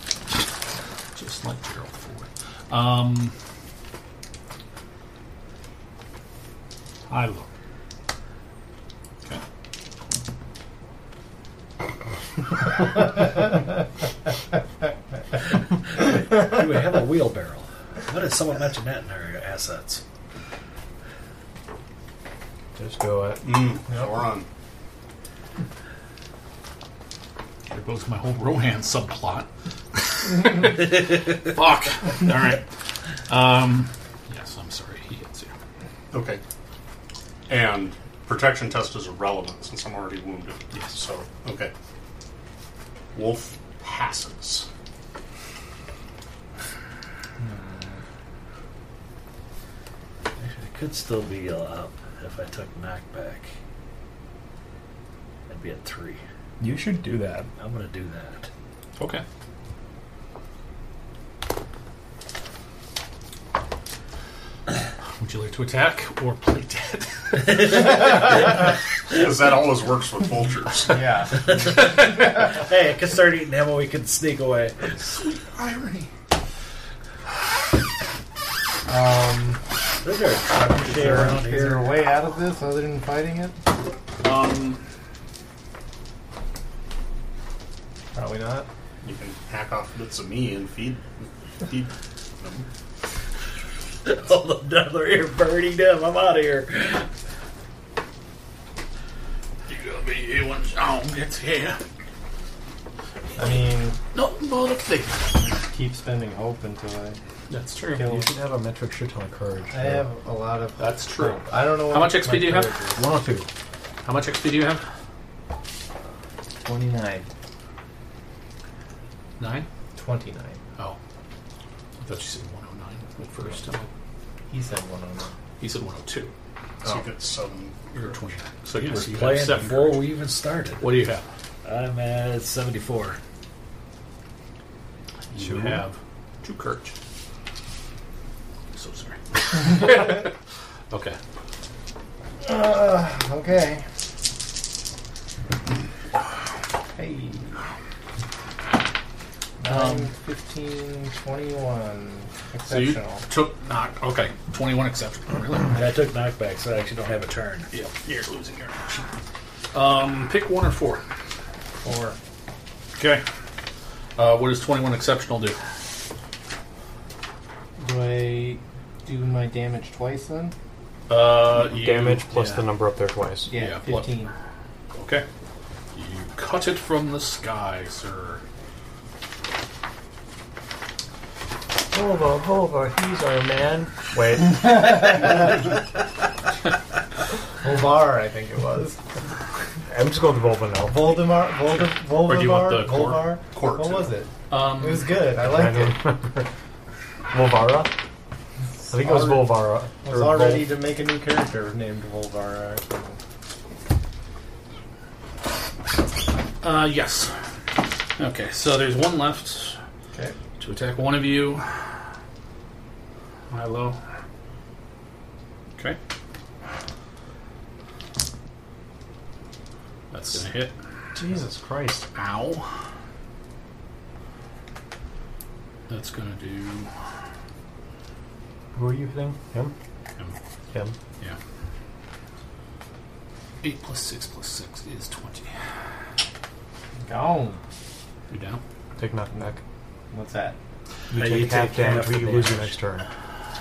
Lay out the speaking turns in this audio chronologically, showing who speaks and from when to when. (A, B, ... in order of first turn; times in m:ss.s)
0:01.1-0:03.3 A
0:07.1-0:07.5 A
0:15.8-0:20.0 B
0:22.7-0:23.8 C
0:23.4-0:24.5 D
0:27.7-0:32.6 A
0:33.3-0:35.5 A
0:36.1-0:36.4 D
0:37.5-0:41.7 D
0:43.1-0:44.7 D
0:47.4-0:48.0 E
0:50.4-0:53.5 B
0:55.5-0:56.2 B
0:56.6-0:57.5 C
0:57.6-0:58.5 B
0:59.0-0:59.2 A
1:05.2-1:07.9 A
1:07.4-1:08.4 B
1:09.1-1:11.1 D
1:10.9-1:11.5 E
1:11.3-1:15.0 B
1:11.8-1:12.3 A
1:14.9-1:16.1 A
1:18.9-1:19.6 E
1:20.0-1:22.0 B
1:20.6-1:23.6 E
1:24.2-1:24.8 A
1:28.1-1:28.7 E
1:29.0-1:32.7 D
1:34.0-1:37.1 B
1:39.7-1:41.8 A
1:43.4-1:44.0 E
1:44.1-1:45.3 A
1:45.7-1:47.2 E
1:47.5-1:48.1 A
1:47.9-1:48.3 E
1:48.0-1:50.0 C
1:49.7-1:53.0 E
1:50.8-1:52.7 A
1:52.2-1:53.5 C
1:54.0-1:54.8 A
1:56.6-1:57.2 E
1:59.4-1:59.7 A
2:00.0-2:00.6 E
2:02.0-2:03.9 A
2:04.5-2:05.3 E
2:05.6-2:06.3 A
2:06.8-2:07.9 D
2:07.9-2:10.1 A
2:08.7-2:11.0 B
2:10.8-2:11.3 A
2:11.6-2:13.2 B
2:15.3-2:16.9 A
2:15.4-2:15.8 C
2:18.7-2:20.3 A
2:20.9-2:21.2 A
2:22.4-2:23.8 E
2:26.9-2:27.6 E
2:29.6-2:33.2 E
2:29.7-2:30.1 A
2:32.6-2:35.8 A
2:35.7-2:37.7 B
2:37.7-2:39.0 A
2:39.7-2:41.0 A
2:41.8-2:42.2 E
2:43.0-2:43.2 A
2:44.2-2:45.6 A
2:47.8-2:50.5 E
2:51.1-2:52.6 A
2:51.6-2:53.5 C
2:53.5-2:54.3 E
2:53.5-2:54.1 A
2:54.9-2:55.2 A
2:55.9-2:58.4 A
3:01.9-3:05.5 C
3:04.6-3:05.4 E
3:07.6-3:09.0 E
3:09.9-3:11.2 C
3:10.9-3:16.1 E
3:12.0-3:13.3 A
3:13.5-3:14.1 D
3:14.5-3:15.1 A
3:15.4-3:16.5 C
3:17.3-3:18.0 C
3:18.7-3:23.2 E
3:18.9-3:20.7 C
3:26.6-3:27.3 A
3:28.2-3:29.8 A
3:30.6-3:31.6 A
3:33.5-3:34.0 A
3:40.1-3:40.7 A
3:41.1-3:42.1 C
3:42.1-3:42.7 A
3:45.9-3:46.9 A
3:48.7-3:49.7 C
3:53.6-3:55.5 A
3:57.0-3:57.6 E
3:58.3-3:58.6 A
3:59.0-3:59.6 C
4:00.1-4:00.6 E
4:01.1-4:03.1 C
4:01.1-4:02.8 B